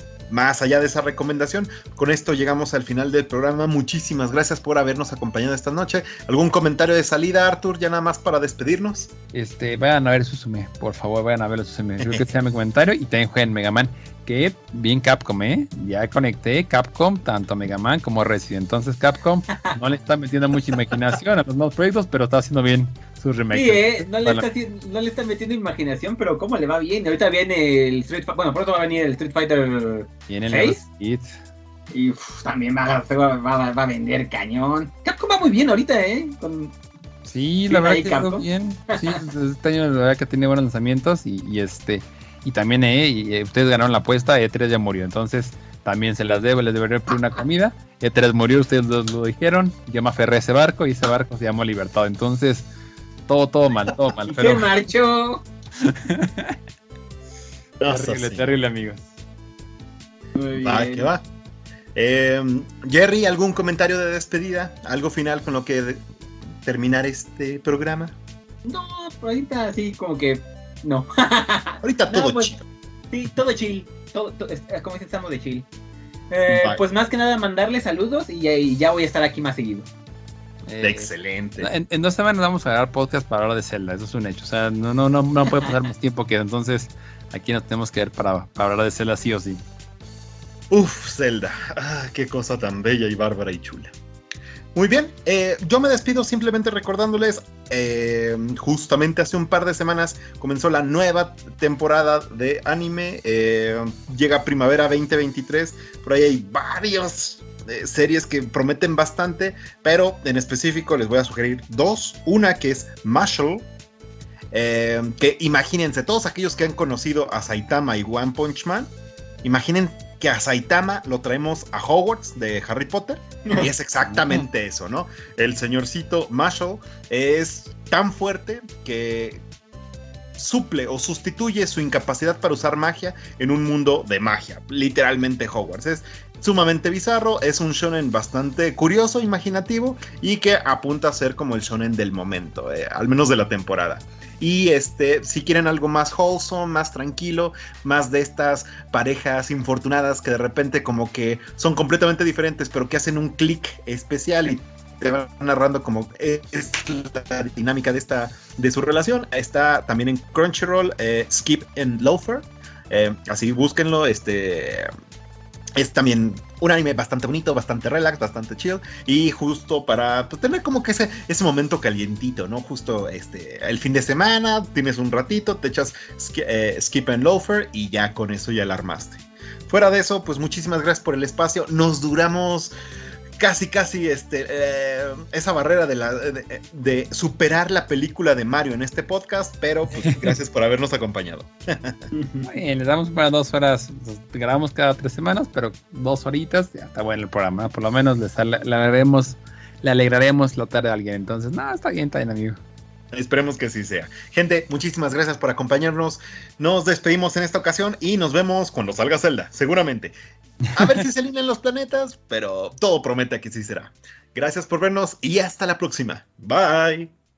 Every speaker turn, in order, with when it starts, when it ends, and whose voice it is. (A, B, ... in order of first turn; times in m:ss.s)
0:00.3-0:09.1 A
0:09.3-0:24.4 B
0:23.5-0:30.8 C
0:30.3-0:31.4 B
0:31.9-0:36.7 C
0:37.2-0:52.7 B
0:37.7-0:39.1 C
0:53.3-0:54.7 B
0:54.3-0:55.4 C
0:55.9-0:56.5 B
0:57.8-0:58.5 A
0:57.9-0:59.1 B
1:00.3-1:01.1 C
1:00.6-1:01.2 A
1:01.9-1:06.0 A
1:06.6-1:08.2 A
1:08.6-1:12.5 C
1:11.8-1:12.6 A
1:13.1-1:15.6 C
1:16.3-1:19.9 C
1:16.5-1:16.8 A
1:20.7-1:21.1 B
1:20.8-1:21.7 A
1:21.6-1:29.6 B
1:30.7-1:33.9 A
1:34.7-1:53.7 A
1:54.5-1:58.9 A
1:59.4-2:09.4 A
2:10.4-2:44.9 A
2:45.7-3:02.7 A
3:03.4-3:12.1 A
3:12.1-3:12.4 C
3:12.4-3:22.6 B
3:23.1-3:30.1 A
3:30.7-3:37.1 A